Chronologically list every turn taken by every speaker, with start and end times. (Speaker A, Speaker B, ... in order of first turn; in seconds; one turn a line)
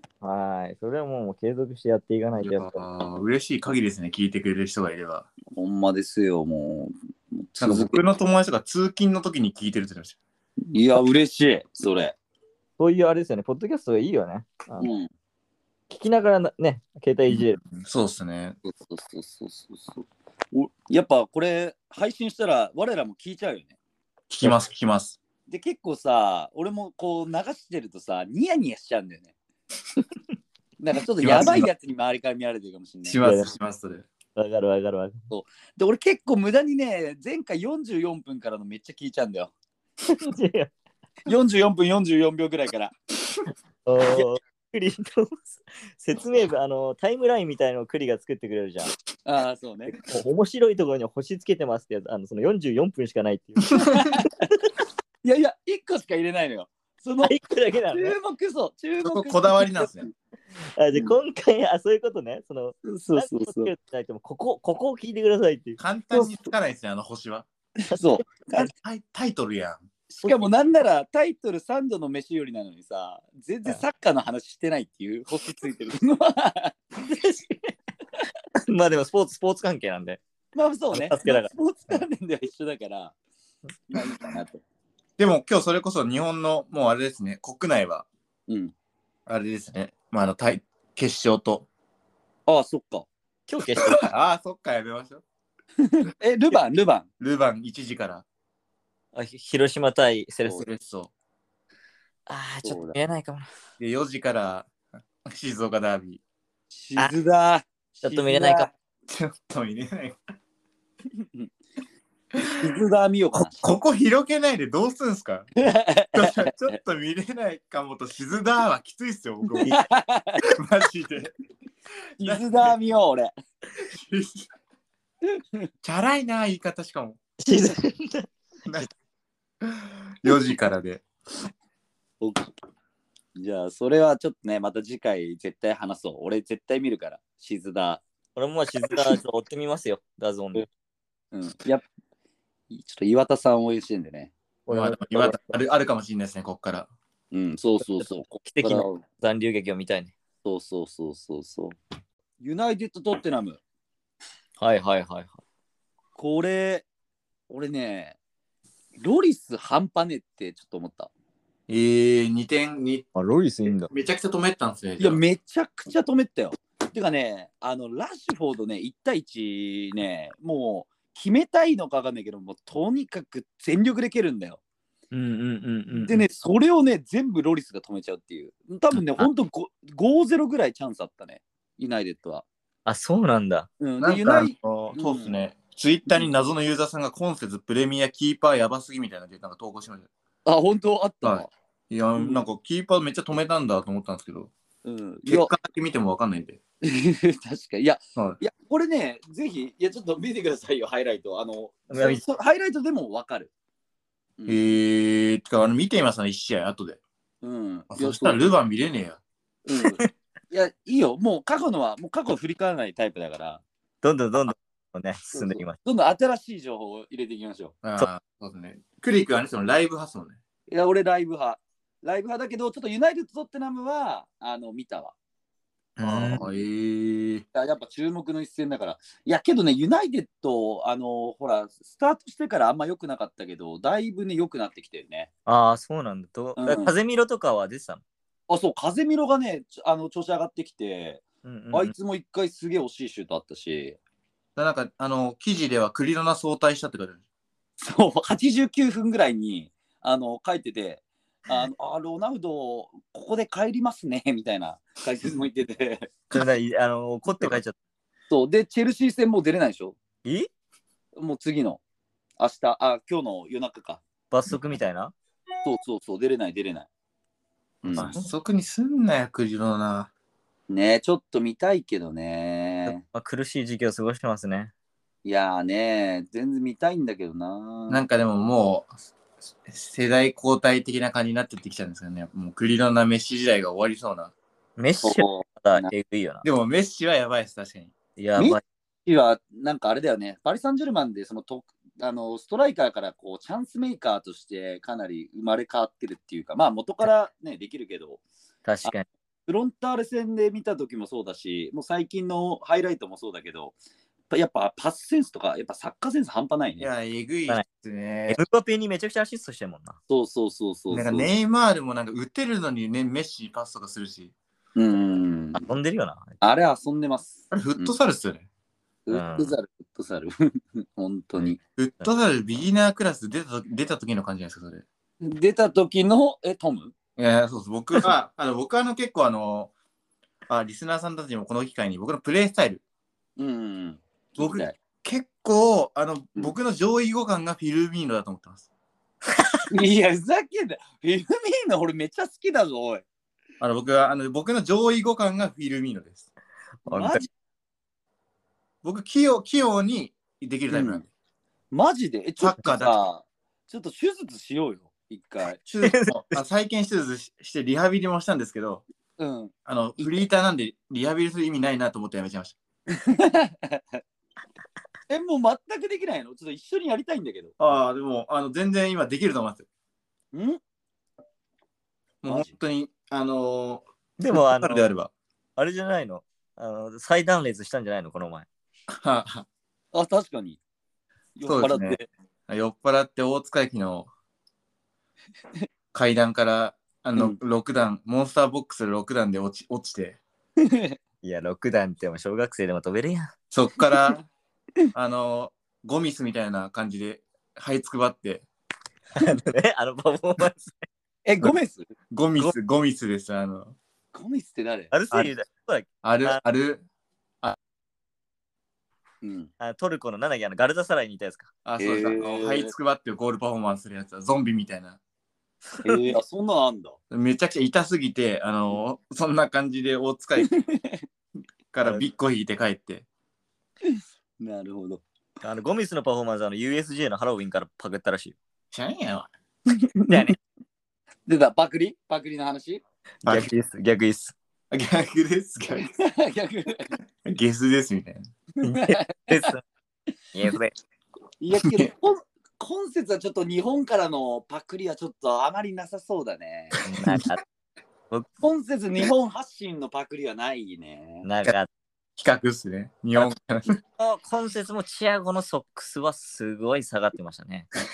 Speaker A: 0.2-2.8
Speaker B: 2.4-5.3
Speaker C: 5.5-8.0
Speaker B: 7.6-10.2
Speaker C: 10.7-12.1
Speaker A: 12.8-14.9
Speaker C: 14.8-15.1
Speaker A: 15.9-17.6
Speaker B: 17.3-18.6
Speaker C: 18.6-23.7
Speaker B: 24.3-25.2
Speaker C: 25.5-29.3
Speaker C: 30.8-33.2
Speaker B: 31.2-31.7
Speaker B: 33.0-34.1
Speaker A: 33.2-33.5
Speaker A: 34.3-35.2
Speaker C: 35.3-39.5
Speaker A: 40.1-40.7
Speaker C: 41.2-42.9
Speaker A: 43.8-48.9
Speaker C: 49.2-50.0
Speaker A: 49.9-54.3
Speaker C: 53.7-54.3
Speaker C: 55.2-57.4
Speaker A: 57.2-58.1
Speaker C: 57.9-60.1
Speaker B: 59.0-60.1
Speaker A: 60.7-65.8
Speaker C: 62.9-63.7
Speaker B: 65.8-67.5
Speaker C: 67.8-68.7
Speaker A: 67.9-68.6
Speaker B: 68.6-69.8
Speaker C: 70.1-76.8
Speaker A: 70.2-70.5
Speaker A: 77.0-77.7
Speaker A: 78.7-80.2
Speaker C: 80.5-83.1
Speaker A: 80.9-82.0
Speaker C: 83.9-84.6
Speaker B: 85.2-88.0
Speaker C: 88.5-88.7
Speaker B: 89.3-91.7
Speaker C: 92.5-93.1
Speaker A: 93.5-94.0
Speaker B: 93.8-95.2
Speaker C: 95.8-97.1
Speaker B: 97.2-98.2
Speaker A: 99.1-100.6
Speaker B: 100.5-101.1
Speaker A: 102.3-103.5
Speaker C: 102.6-103.0
Speaker B: 103.8-104.7
Speaker B: 105.2-106.2
Speaker C: 106.7-108.7
Speaker A: 108.0-108.7
Speaker B: 109.1-110.2
Speaker C: 111.2-111.5
Speaker B: 112.3-112.7
Speaker C: 112.6-113.7
Speaker B: 113.5-115.5
Speaker C: 115.6-116.5
Speaker B: 116.1-119.7
Speaker C: 119.5-120.4
Speaker B: 120.5-121.3
Speaker B: 122.2-122.7
Speaker C: 122.2-123.3
Speaker B: 123.8-124.5
Speaker C: 125.3-125.7
Speaker B: 125.8-127.2
Speaker A: 127.4-128.9
Speaker B: 129.6-131.1
Speaker C: 132.2-132.5
Speaker C: 133.3-138.0
Speaker A: 138.3-140.7
Speaker C: 141.3-141.8
Speaker C: 142.7-144.3
Speaker A: 144.7-145.6
Speaker B: 144.7-146.9
Speaker C: 147.3-149.0
Speaker A: 147.8-150.1
Speaker C: 150.4-151.8
Speaker C: 152.4-153.6
Speaker A: 154.6-155.4
Speaker C: 156.2-156.8
Speaker C: 157.5-158.2
Speaker C: 159.0-161.1
Speaker B: 161.7-163.1
Speaker A: 163.1-163.9
Speaker B: 163.9-165.2
Speaker C: 165.0-174.6
Speaker A: 175.1-176.2
Speaker C: 176.0-182.4
Speaker A: 182.8-183.7
Speaker C: 183.8-185.4
Speaker B: 184.0-190.1
Speaker C: 190.4-191.5
Speaker B: 191.2-194.5
Speaker C: 192.2-192.4
Speaker C: 194.8-195.5
Speaker B: 195.2-196.6
Speaker C: 196.8-203.5
Speaker A: 201.9-202.2
Speaker C: 204.4-204.8
Speaker B: 204.5-207.0
Speaker C: 207.4-208.5
Speaker B: 207.9-209.2
Speaker C: 209.7-213.6
Speaker A: 214.0-215.8
Speaker C: 215.3-217.8
Speaker B: 217.8-220.4
Speaker C: 220.7-225.1
Speaker A: 226.0-226.4
Speaker C: 226.0-226.6
Speaker B: 226.1-227.4
Speaker C: 227.5-235.3
Speaker A: 235.4-238.0
Speaker C: 236.6-236.9
Speaker C: 238.5-244.0
Speaker A: 241.4-241.9
Speaker B: 244.6-247.2
Speaker C: 247.8-256.1
Speaker A: 256.3-257.8
Speaker C: 258.3-260.0
Speaker A: 260.2-260.5
Speaker C: 261.1-261.8
Speaker C: 262.4-264.0
Speaker A: 264.3-265.1
Speaker C: 265.6-266.9
Speaker C: 267.8-268.1
Speaker B: 267.9-270.1
Speaker A: 268.0-268.3
Speaker C: 270.7-273.0
Speaker A: 272.9-274.7
Speaker C: 275.2-278.0
Speaker B: 277.9-278.9
Speaker B: 279.6-284.3
Speaker A: 284.8-286.4
Speaker C: 285.0-285.9
Speaker B: 286.4-287.9
Speaker A: 288.2-288.6
Speaker C: 288.4-298.2
Speaker A: 298.6-299.1
Speaker C: 299.5-303.8
Speaker C: 304.3-306.9
Speaker B: 306.8-308.4
Speaker A: 308.3-310.0
Speaker C: 310.1-311.3
Speaker B: 310.9-314.3
Speaker C: 314.8-315.6
Speaker A: 315.6-316.4
Speaker C: 316.4-317.9
Speaker B: 317.5-318.5
Speaker C: 319.1-321.6
Speaker A: 319.1-319.6
Speaker B: 321.8-324.8
Speaker C: 325.2-326.9
Speaker B: 327.2-329.7
Speaker B: 330.5-332.8
Speaker C: 333.4-334.7
Speaker B: 334.4-338.7
Speaker C: 339.7-343.0
Speaker B: 343.6-346.3
Speaker C: 346.9-347.3
Speaker B: 346.9-347.2
Speaker B: 348.8-351.1
Speaker C: 350.7-351.0
Speaker C: 351.7-355.6
Speaker B: 352.4-353.0
Speaker B: 355.6-358.8
Speaker A: 355.8-356.4
Speaker C: 359.2-360.2
Speaker B: 359.6-362.6
Speaker C: 362.9-363.8
Speaker C: 365.1-367.5
Speaker B: 367.6-369.6
Speaker C: 370.3-370.6
Speaker B: 372.2-375.1
Speaker C: 372.2-372.5
Speaker A: 374.2-374.9
Speaker A: 375.6-378.5
Speaker B: 378.9-379.5
Speaker C: 379.9-380.6
Speaker C: 381.4-382.1
Speaker B: 381.4-384.1
Speaker B: 385.9-390.2
Speaker C: 390.6-390.9
Speaker A: 391.2-393.3
Speaker B: 393.5-394.2
Speaker B: 394.9-398.4
Speaker A: 399.1-400.8
Speaker C: 401.2-401.9
Speaker B: 402.1-403.8
Speaker C: 404.1-404.9
Speaker A: 404.9-406.4
Speaker B: 406.0-406.8
Speaker C: 409.2-409.5
Speaker A: 409.6-411.5
Speaker B: 411.6-415.0
Speaker C: 411.8-412.7
Speaker C: 415.8-417.0
Speaker B: 417.1-420.5
Speaker C: 420.4-421.0
Speaker B: 421.7-423.1
Speaker C: 423.8-425.0
Speaker A: 425.4-428.4
Speaker B: 428.7-429.3
Speaker C: 429.7-430.3
Speaker A: 430.1-430.4
Speaker C: 431.3-432.8
Speaker A: 433.2-434.4
Speaker B: 433.2-433.5
Speaker B: 434.7-435.9
Speaker C: 435.7-436.9
Speaker B: 437.2-438.2
Speaker C: 438.6-439.5
Speaker A: 438.6-439.6
Speaker A: 440.3-440.7
Speaker C: 441.4-446.8
Speaker B: 441.6-441.9
Speaker A: 446.8-447.4
Speaker C: 448.4-451.2
Speaker A: 451.2-451.7
Speaker B: 452.2-453.8
Speaker A: 454.0-457.7